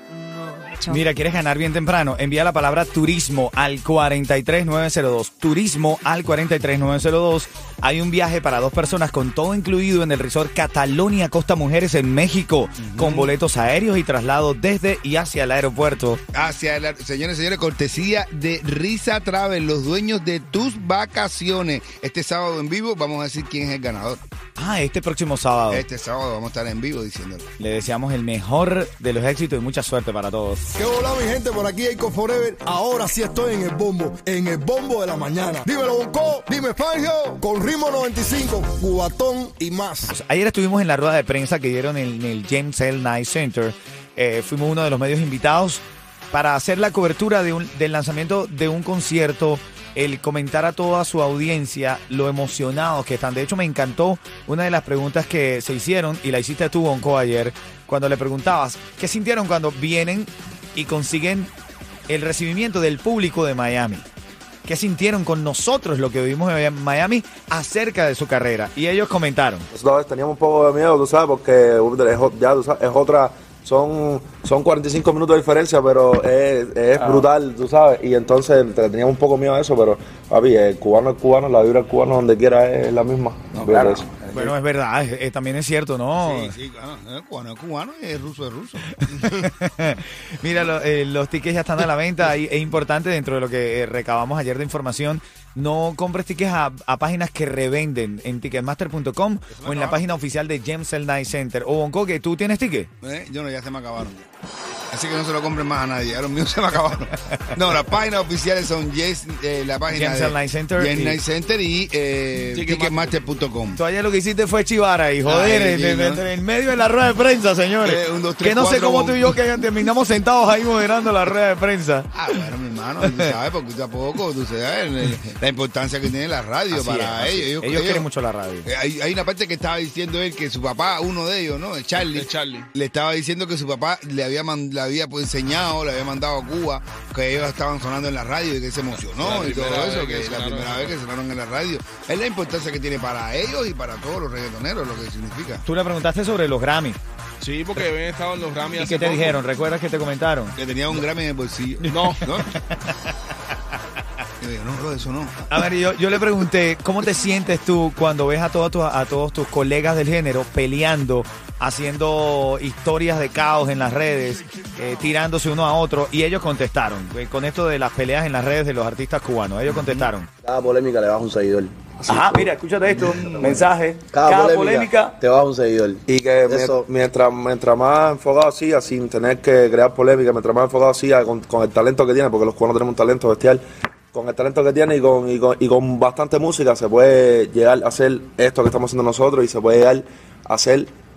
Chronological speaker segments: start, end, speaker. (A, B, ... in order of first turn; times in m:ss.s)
0:00.9-0:16.2 A
0:12.8-0:13.3 B
0:16.3-0:24.2 B
0:24.6-0:25.8 A
0:25.7-0:27.5 B
0:27.6-0:30.6 A
0:30.7-0:40.1 C
0:40.1-1:01.5 A
1:02.1-1:04.1 A
1:04.6-1:09.6 A
1:09.7-1:24.1 D
1:23.7-1:24.5 E
1:24.3-1:26.5 A
1:26.2-1:29.4 B
1:28.9-1:42.9 A
1:39.5-1:40.0 B
1:43.0-1:44.2 B
1:44.9-1:53.8 B
1:49.9-1:51.2 A
1:52.5-1:53.4 F
1:53.8-2:02.2 A
1:55.2-1:56.2 B
1:57.8-1:59.3 B
2:02.1-2:08.0 B
2:06.7-2:08.7 A
2:08.6-2:25.6 B
2:12.0-2:12.7 F
2:18.9-2:21.0 F
2:25.6-2:27.0 A
2:27.4-2:29.4 F
2:28.7-2:30.6 A
2:30.6-2:32.5 B
2:31.8-2:32.2 F
2:32.0-2:33.1 A
2:34.4-2:35.5 B
2:35.5-2:50.3 A
2:49.7-2:50.1 B
2:50.4-2:52.2 E
2:52.1-2:55.2 A
2:53.0-2:53.6 B
2:53.3-2:56.8 E
2:56.1-3:10.9 D